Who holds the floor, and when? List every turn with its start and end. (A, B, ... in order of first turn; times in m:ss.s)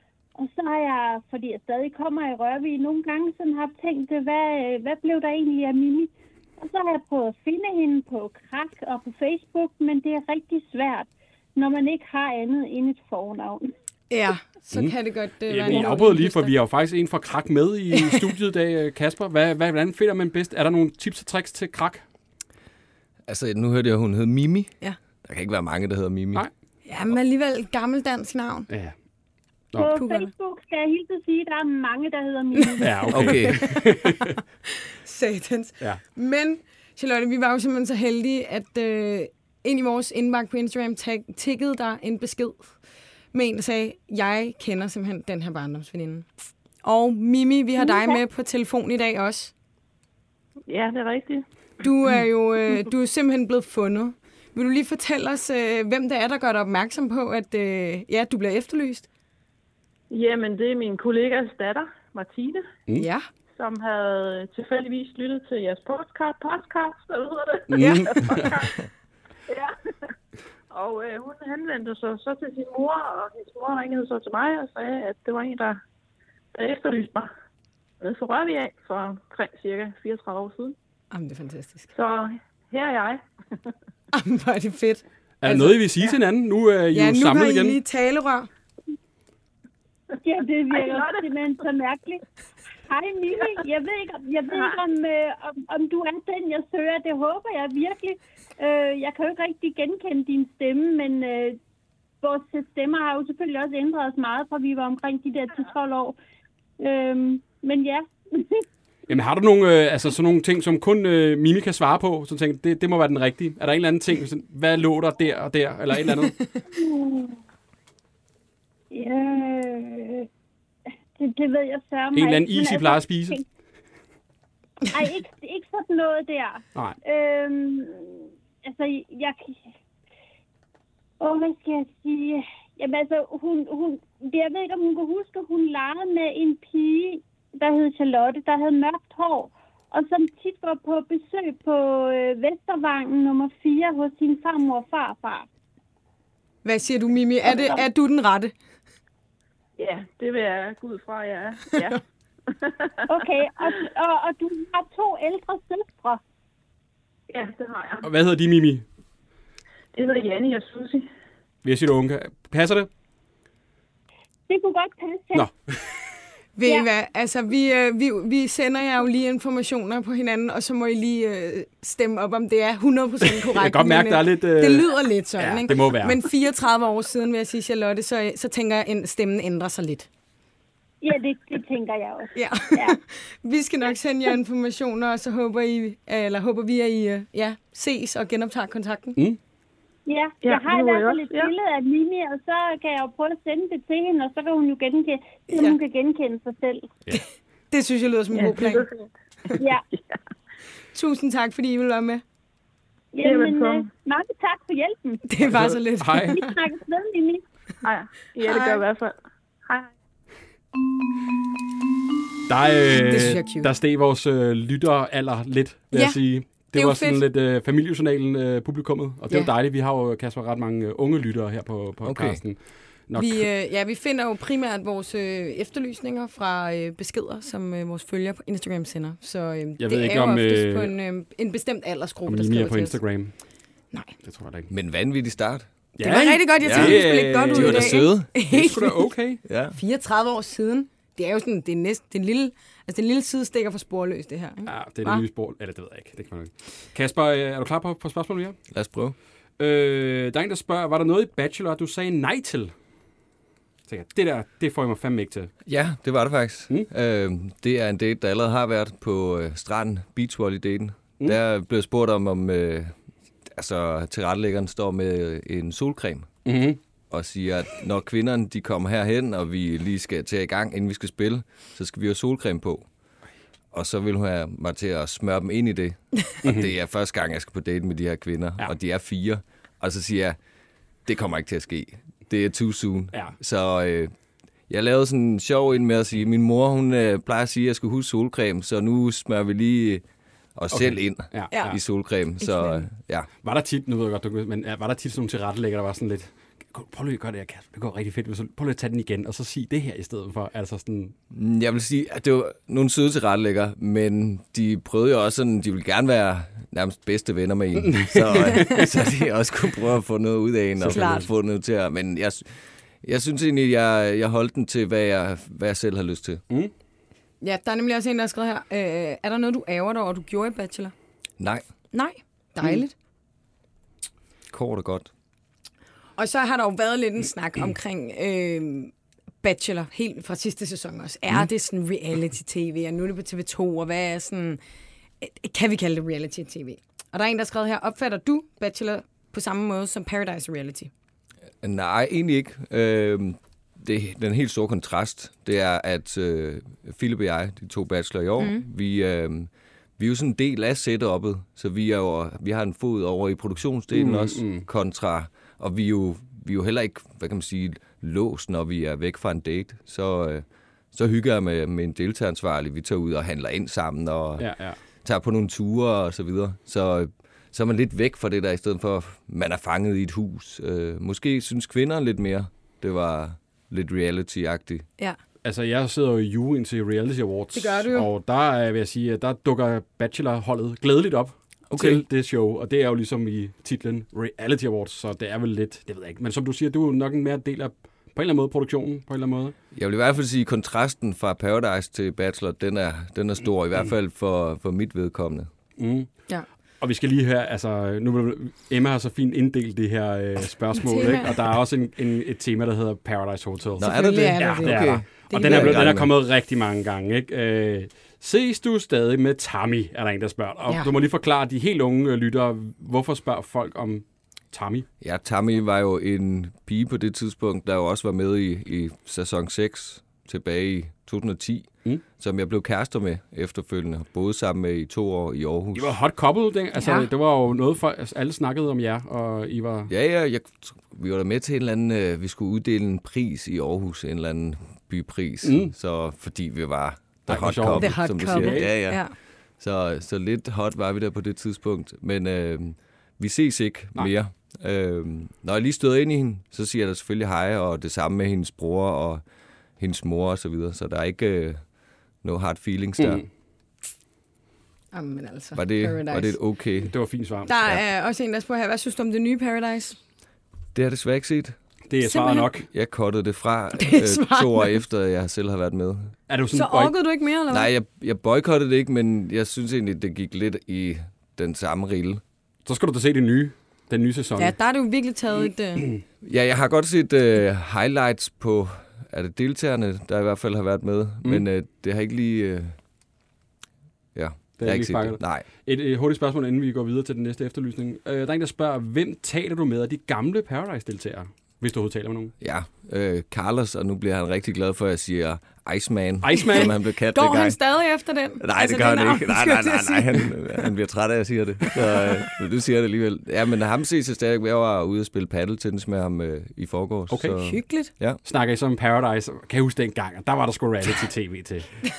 0:00.4-0:13.7 A
0:14.1-0:16.6 B
0:15.5-0:22.0 C
0:17.9-0:18.2 B
0:23.3-0:26.5 D
0:26.9-0:28.7 B
0:28.7-0:29.0 C
0:29.7-0:30.0 C
0:29.8-0:33.2 A
0:29.9-0:30.3 B
0:32.6-0:42.8 B
0:32.8-0:34.4 C
0:33.1-0:33.7 D
0:43.3-0:46.3 B
0:46.8-0:49.5 B
0:47.8-0:48.2 A
0:50.7-0:51.4 E
0:51.8-0:59.1 B
1:00.1-1:02.7 E
1:03.0-1:03.3 B
1:03.6-1:08.8 E
1:07.7-1:08.5 C
1:07.8-1:08.1 B
1:09.5-1:09.8 E
1:10.7-1:15.8 E
1:16.5-1:17.3 E
1:18.0-1:20.8 E
1:21.1-1:21.9 B
1:21.9-1:23.2 E
1:24.1-1:25.8 B
1:25.4-1:27.8 C
1:26.9-1:28.5 B
1:30.2-1:32.2 A
1:30.7-1:31.4 E
1:32.9-1:41.6 A
1:42.2-1:46.2 A
1:46.8-1:48.6 A
1:49.1-1:56.4 C
1:56.2-1:56.6 B
1:56.7-1:57.4 A
1:58.9-2:00.3 A
2:01.2-2:03.4 A
2:02.2-2:03.4 C
2:04.9-2:09.6 A
2:11.2-2:25.5 A
2:26.6-2:28.5 B
2:29.8-2:33.2 E
2:33.1-2:36.2 A
2:37.3-2:38.1 E
2:38.0-2:38.8 C
2:39.9-2:41.1 E
2:41.6-2:42.9 C
2:44.5-2:45.5 A
2:45.3-2:46.0 C
2:46.6-3:00.1 B
2:53.3-2:56.3 C
3:01.0-3:03.0 A
3:02.4-3:09.2 B
3:10.1-3:16.9 A
3:10.4-3:11.5 E
3:17.7-3:18.9 B
3:18.3-3:20.2 E
3:19.6-3:19.8 A
3:20.9-3:22.2 B
3:23.1-3:25.3 A
3:23.2-3:23.9 E
3:25.3-3:26.6 B
3:25.5-3:26.4 C
3:26.2-3:27.4 A
3:27.8-3:29.9 E
3:28.4-3:28.8 B
3:32.5-3:43.5 C
3:32.9-3:33.7 B
3:35.9-3:37.2 B
3:42.0-3:42.4 D
3:43.2-3:53.0 B
3:49.8-3:50.9 C
3:52.3-3:53.3 C
3:54.2-3:54.7 C
3:54.7-3:55.7 D
3:56.0-3:59.1 B
3:56.0-3:59.4 C
3:56.6-3:58.3 D
3:59.4-3:59.8 D
3:59.7-4:05.3 B
4:04.7-4:08.6 C
4:08.7-4:09.2 D
4:09.6-4:12.7 C
4:13.9-4:15.5 C
4:15.7-4:23.0 D
4:23.5-4:26.4 D
4:26.4-4:26.8 C
4:27.1-4:32.9 D
4:33.7-4:40.4 D
4:36.4-4:36.7 C
4:41.1-4:44.1 D
4:44.7-4:50.0 D
4:50.6-4:53.3 D
4:50.7-4:51.8 C
4:51.5-4:51.8 B
4:52.4-4:52.9 B
4:53.4-5:01.2 C
5:01.3-5:12.5 D
5:07.8-5:08.9 C
5:10.8-5:11.2 C
5:10.8-5:11.3 B
5:13.0-5:16.4 D
5:17.4-5:20.9 B
5:21.4-5:21.6 D
5:21.9-5:22.9 B
5:24.5-5:25.1 D
5:26.2-5:34.6 B
5:35.2-5:40.9 B
5:41.6-6:04.5 D
5:48.4-5:48.6 B
5:53.9-5:54.7 C
6:04.4-6:04.8 C
6:05.0-6:14.9 D
6:15.4-6:29.6 C
6:17.5-6:18.1 B
6:21.7-6:22.0 D
6:29.7-6:35.5 D
6:35.8-6:36.1 C
6:36.8-6:54.9 C
6:40.8-6:41.4 B
6:43.8-6:46.1 D
6:43.8-6:45.8 B
6:55.0-7:06.0 D
7:05.8-7:09.9 C
7:06.8-7:07.1 B
7:09.9-7:29.2 D
7:15.4-7:15.7 C
7:17.3-7:18.7 C
7:17.8-7:19.1 B
7:29.8-7:31.6 D
7:32.2-7:33.2 D
7:33.0-7:33.3 C
7:34.9-7:36.4 B
7:35.6-7:36.9 D
7:36.8-7:37.5 C
7:37.5-7:40.0 B
7:40.8-7:41.6 D
7:41.9-7:42.7 C
7:42.0-7:42.5 B
7:42.7-7:46.2 D
7:43.8-7:44.8 B
7:46.3-7:46.9 C
7:46.5-7:47.7 B
7:47.5-7:52.2 D
7:52.6-7:54.6 C
7:54.4-7:55.9 B
7:56.2-8:02.8 D
8:04.2-8:05.5 D
8:04.6-8:12.3 C
8:12.4-8:17.6 D
8:16.2-8:16.7 C
8:16.4-8:20.7 B
8:18.4-8:28.2 D
8:27.1-8:27.4 C
8:27.4-8:27.9 B
8:28.2-8:31.7 C